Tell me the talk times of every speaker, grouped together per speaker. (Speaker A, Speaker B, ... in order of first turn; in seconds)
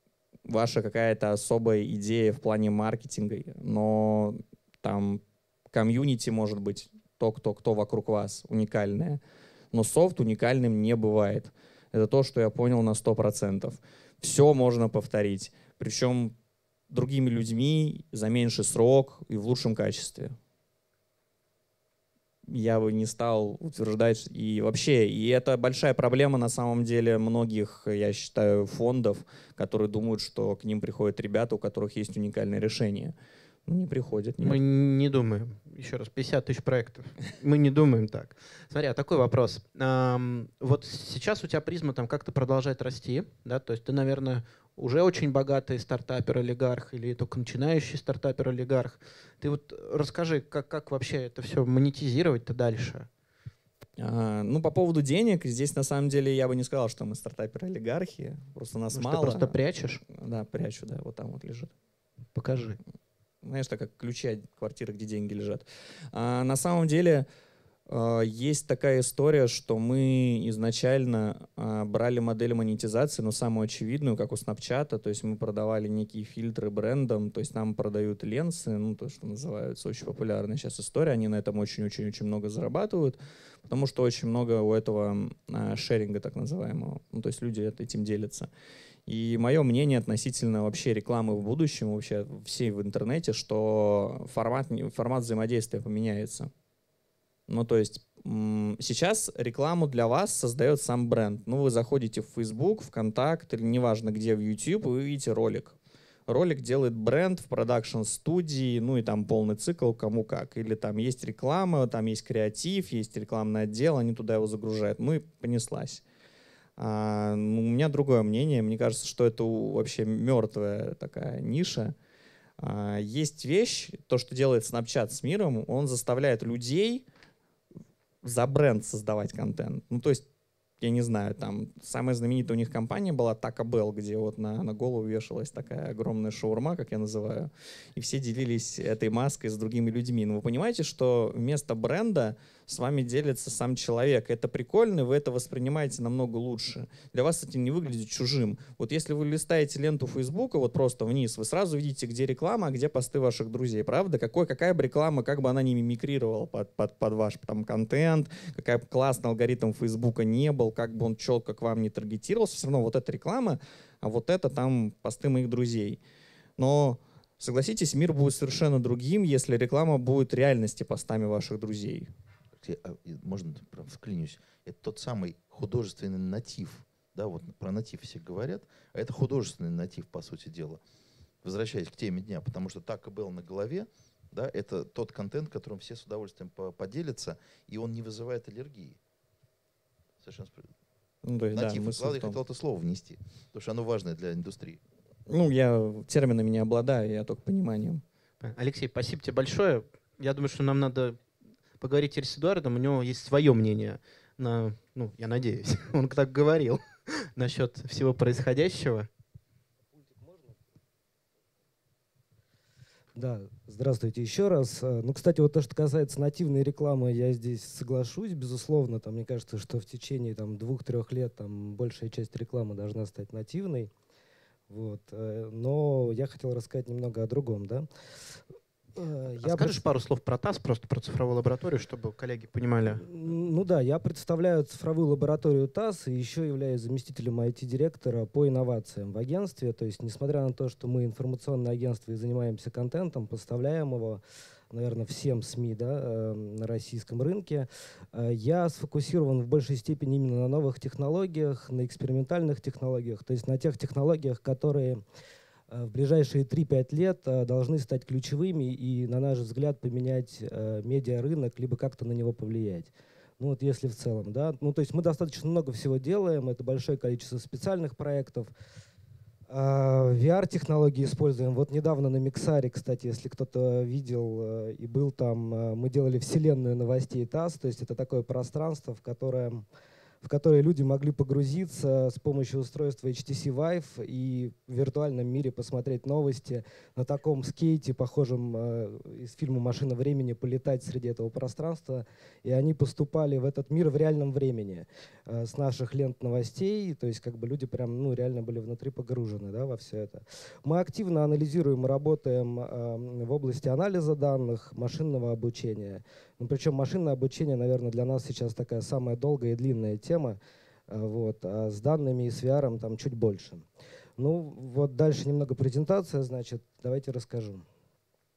Speaker A: 0.5-9.2, 9.7-16.3, 16.9-20.4, 22.5-33.1, 33.7-34.6, 54.0-59.5, 60.1-61.7, 63.4-67.3, 67.9-88.5, 89.1-96.5, 97.5-105.8, 106.3-116.0, 116.8-121.9, 122.6-127.0, 128.2-130.2, 130.8-166.0, 166.6-172.1, 191.2-192.4, 195.3-198.0
Speaker B: 34.4-53.1, 58.9-60.0, 62.3-62.8, 198.4-201.2, 201.8-209.1, 229.4-233.1
Speaker C: 172.6-180.8, 181.4-189.0, 190.2-190.7, 191.5-194.8
Speaker D: 209.9-210.6, 213.2-223.9, 224.7-227.9, 228.9-229.8, 232.8-255.0, 255.7-268.5, 269.5-279.6, 280.2-310.4, 310.9-313.6, 314.2-317.6